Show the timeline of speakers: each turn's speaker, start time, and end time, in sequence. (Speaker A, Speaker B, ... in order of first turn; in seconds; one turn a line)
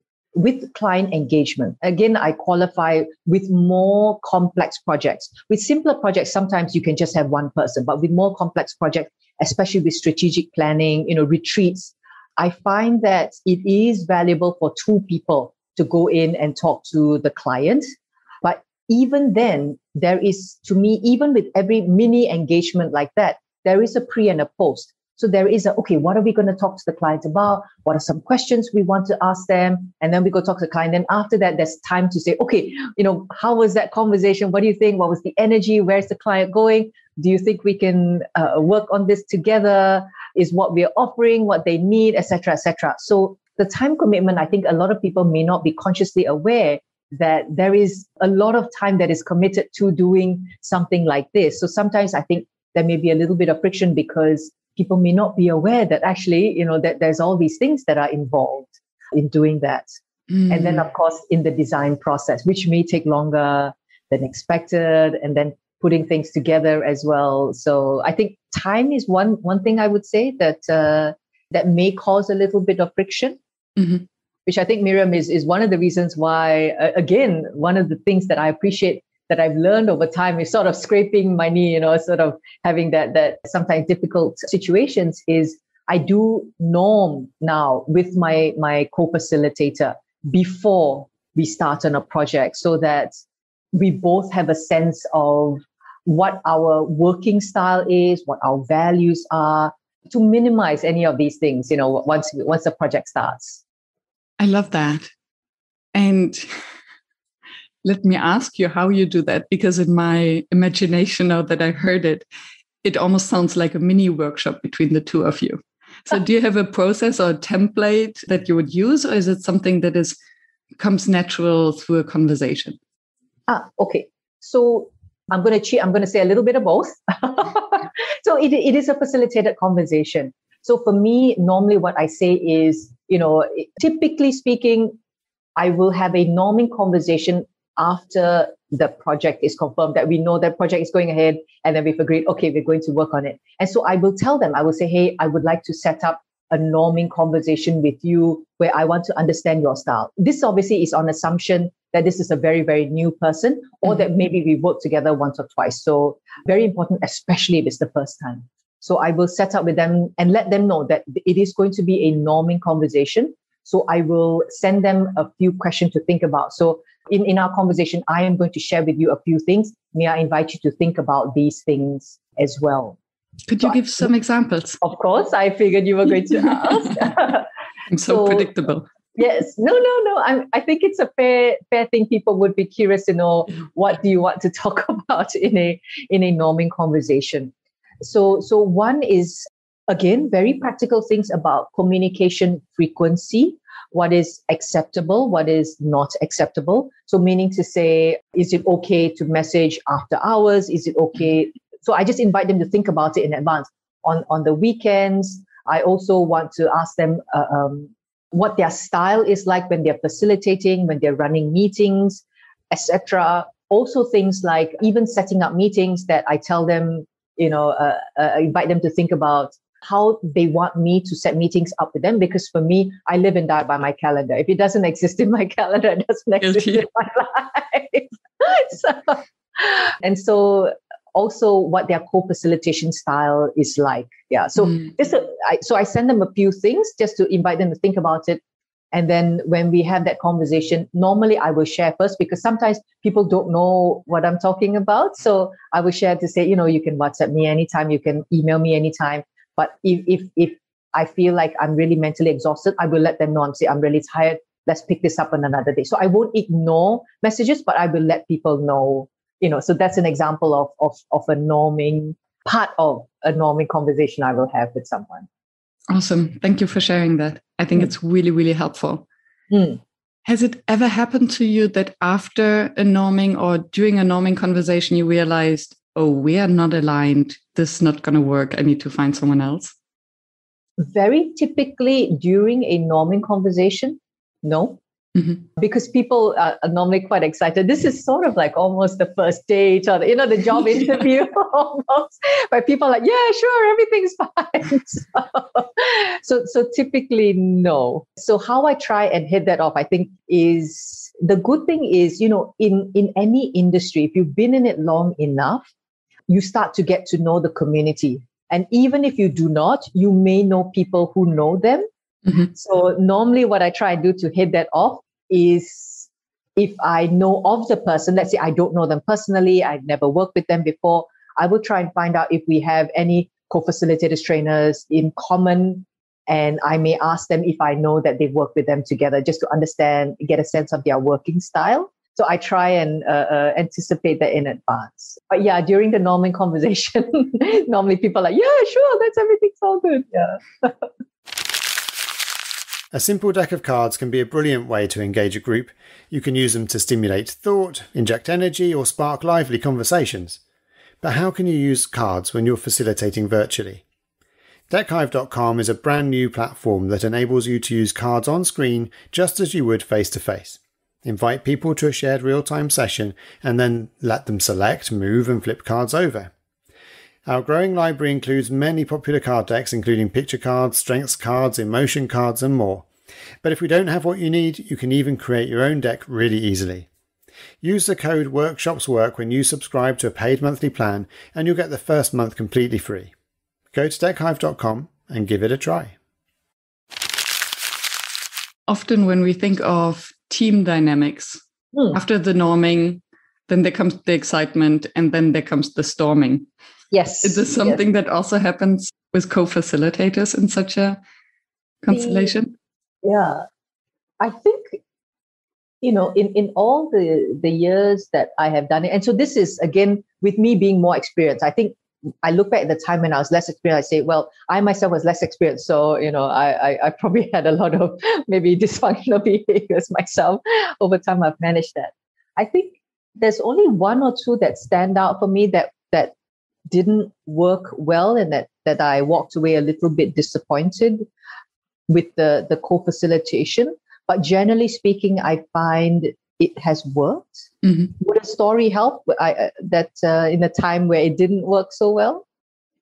Speaker A: 0.3-17.8
Speaker A: 18.4-59.9
Speaker B: 60.3-60.8
Speaker A: 60.5-73.4
Speaker B: 73.8-74.0
Speaker A: 74.5-93.1
Speaker A: 93.7-103.6
Speaker B: 104.4-105.1
Speaker B: 105.9-106.5
Speaker B: 107.8-112.2
Speaker B: 112.8-120.2
Speaker B: 120.8-122.8
Speaker A: 123.5-134.9
Speaker A: 135.6-173.0
Speaker B: 173.5-174.8
Speaker A: 174.8-177.5
Speaker B: 176.8-177.1
Speaker B: 177.9-178.9
Speaker A: 178.1-178.5
Speaker A: 179.1-238.4
Speaker B: 226.4-226.9
Speaker A: 238.9-265.3
Speaker B: 265.9-269.1
Speaker A: 269.5-269.8
Speaker B: 270.2-279.7
Speaker A: 280.8-284.8
Speaker A: 285.6-305.7
Speaker A: 306.3-311.8
Speaker A: 312.5-340.9
Speaker C: 342.9-350.4
Speaker C: 351.0-353.8
Speaker C: 354.7-366.3
Speaker C: 367.2-372.9
Speaker C: 373.4-376.9
Speaker C: 377.6-383.1
Speaker C: 383.7-385.9
Speaker B: 388.7-391.4
Speaker A: 391.7-392.0
Speaker B: 391.9-396.5
Speaker A: 396.9-397.8
Speaker B: 397.2-401.0
Speaker B: 401.8-402.5
Speaker A: 401.9-402.3
Speaker A: 403.0-403.4
Speaker A: 404.2-404.8
Speaker A: 405.8-426.1
Speaker A: 426.7-431.1
Speaker A: 431.9-442.2